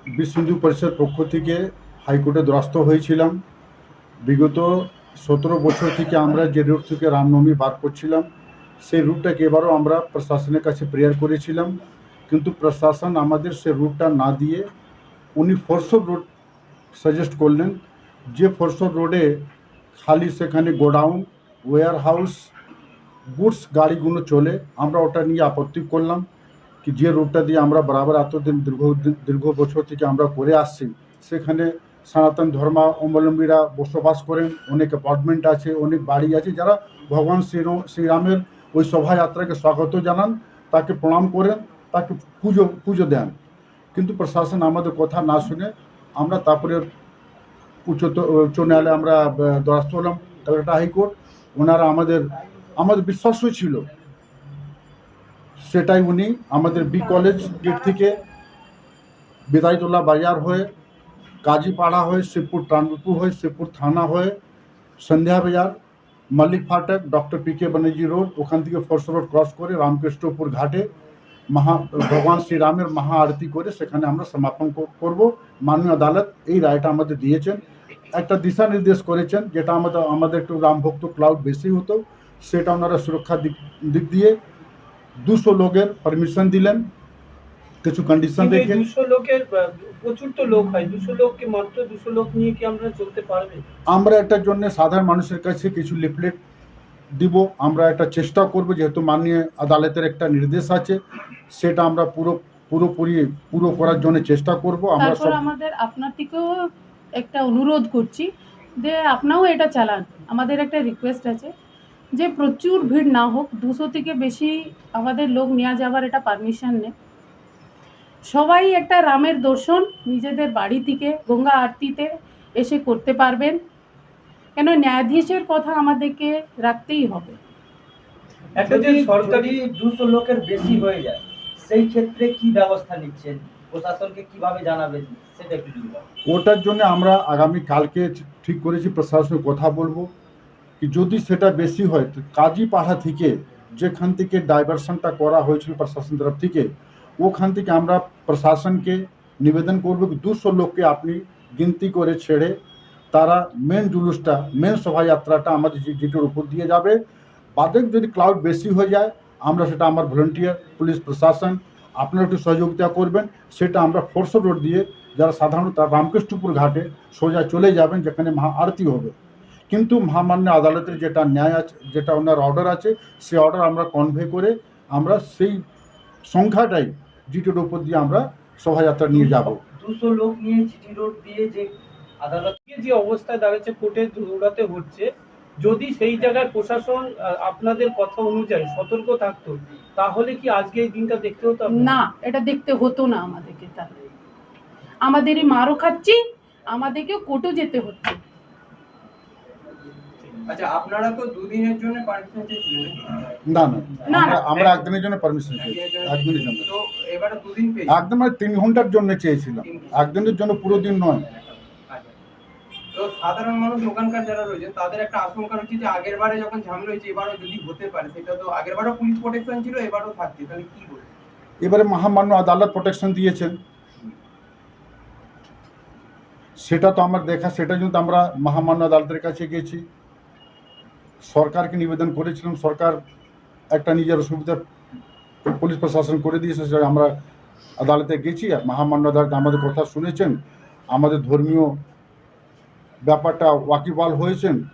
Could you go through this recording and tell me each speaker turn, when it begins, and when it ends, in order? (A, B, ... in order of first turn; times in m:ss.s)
0:00.2-0:03.4 A
0:04.2-0:08.3 A
0:08.8-0:11.8 A
0:12.3-0:14.7 A
0:15.4-0:16.2 A
0:16.9-0:17.8 A
0:18.3-0:22.5 A
0:23.3-0:26.2 A
0:26.8-0:43.4 A
0:43.9-0:46.9 A
0:47.9-0:53.9 A
0:55.6-0:58.2 A
0:59.5-1:00.7 A
1:01.4-1:04.4 A
1:05.0-1:05.7 A
1:06.3-1:10.9 A
1:11.5-1:24.4 A
1:25.2-1:26.9 A
1:27.8-1:28.8 A
1:28.4-1:33.6 B
1:33.9-1:36.4 A
1:37.2-1:41.0 A
1:41.5-1:45.4 A
1:45.0-1:51.5 C
1:52.1-1:56.9 C
1:58.2-2:03.6 C
2:04.6-2:07.4 C
2:08.6-2:09.6 B
2:08.6-2:16.1 D
2:16.3-2:20.1 A
2:20.8-2:26.7 A
2:27.2-2:32.6 A
2:33.1-2:37.0 A
2:37.6-2:49.1 A
2:49.7-2:55.6 A
2:56.3-2:59.6 A
2:59.1-3:02.6 D
3:02.7-3:12.0 B
3:11.7-3:13.9 C
3:15.0-3:18.2 C
3:20.4-3:23.3 E
3:23.5-3:26.7 A
3:24.0-3:24.5 C
3:24.4-3:24.9 E
3:25.6-3:28.0 E
3:27.9-3:31.2 A
3:29.6-3:30.3 E
3:31.9-3:32.1 E
3:32.9-3:41.1 E
3:41.6-3:43.6 A
3:46.6-3:49.8 A
3:51.2-3:53.0 A
3:53.7-3:54.6 A
3:55.4-3:57.1 A
3:57.8-4:00.4 A
4:00.9-4:01.8 A
4:03.0-4:04.6 A